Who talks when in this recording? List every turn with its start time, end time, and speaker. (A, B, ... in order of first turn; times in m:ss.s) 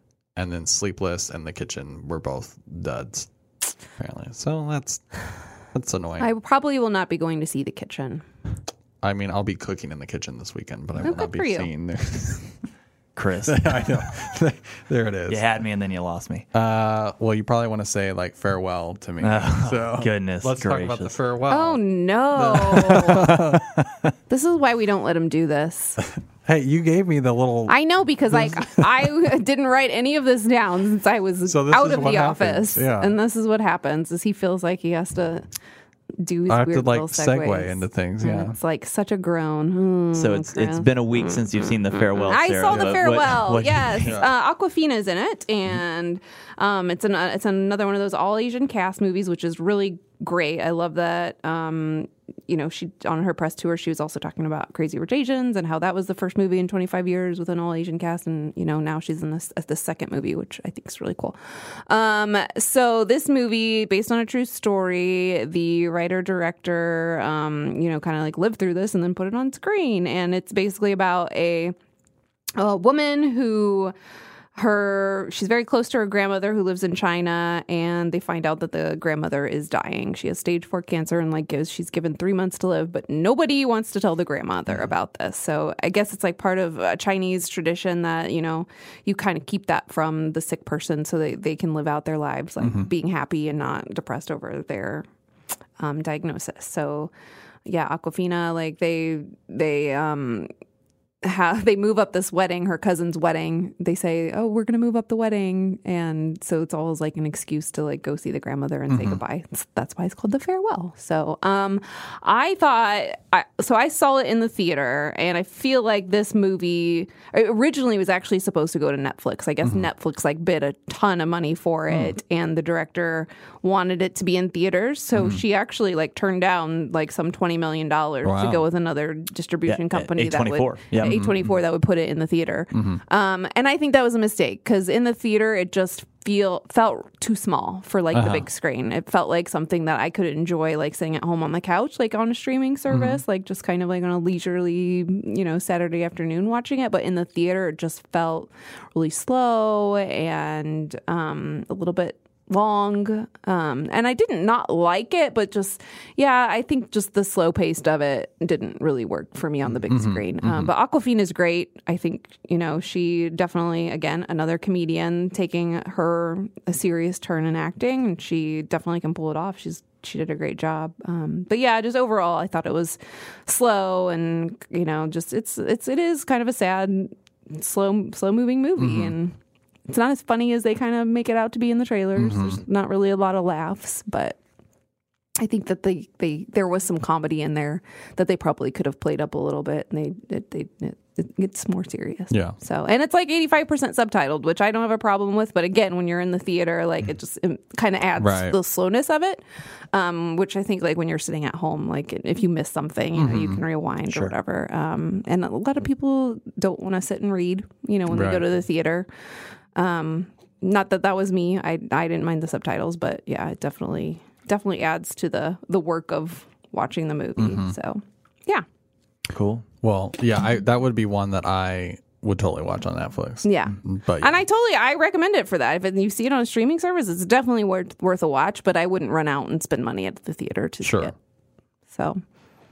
0:00.4-0:03.3 A
0:04.0-0:06.3 A
0:06.2-0:08.2 B
0:09.0-0:12.6 A
0:11.0-0:11.7 B
0:13.2-0:13.9 C
0:13.5-0:15.4 A
0:15.3-0:16.5 C
0:16.5-0:21.8 A
0:19.2-0:21.1 C
0:21.5-0:23.5 B
0:22.3-0:24.1 A
0:24.3-0:26.0 B
0:26.4-0:27.8 A
0:27.7-0:35.4 B
0:28.3-0:29.1 A
0:31.4-0:33.2 A
0:36.2-0:41.4 B
0:36.5-0:38.6 A
0:40.1-0:44.2 C
0:42.1-1:01.4 B
0:42.7-0:43.4 A
0:44.0-0:44.3 A
1:01.9-1:11.8 B
1:12.6-1:13.9 B
1:14.6-1:35.1 B
1:32.6-1:32.9 A
1:35.8-1:37.1 B
1:37.7-1:40.5 B
1:41.2-2:59.3 B
1:48.9-1:49.2 A
2:05.2-2:05.4 A
2:08.2-2:08.6 A
2:09.7-2:11.3 C
2:12.7-2:13.0 A
2:18.1-2:18.4 A
2:22.9-2:23.2 A
2:39.9-2:40.7 A
2:58.8-2:59.2 A
2:59.9-3:04.4 B
3:02.2-3:02.6 A
3:05.4-3:19.4 B
3:18.2-3:18.6 A
3:19.9-3:29.1 B
3:23.2-3:23.6 A
3:24.1-3:24.3 C
3:28.1-3:28.4 A
3:29.8-3:38.6 B
3:37.4-3:37.8 A
3:39.3-3:39.6 C
3:39.8-3:44.4 A
3:43.4-3:51.1 B
3:50.8-3:51.1 A
3:51.9-3:52.2 B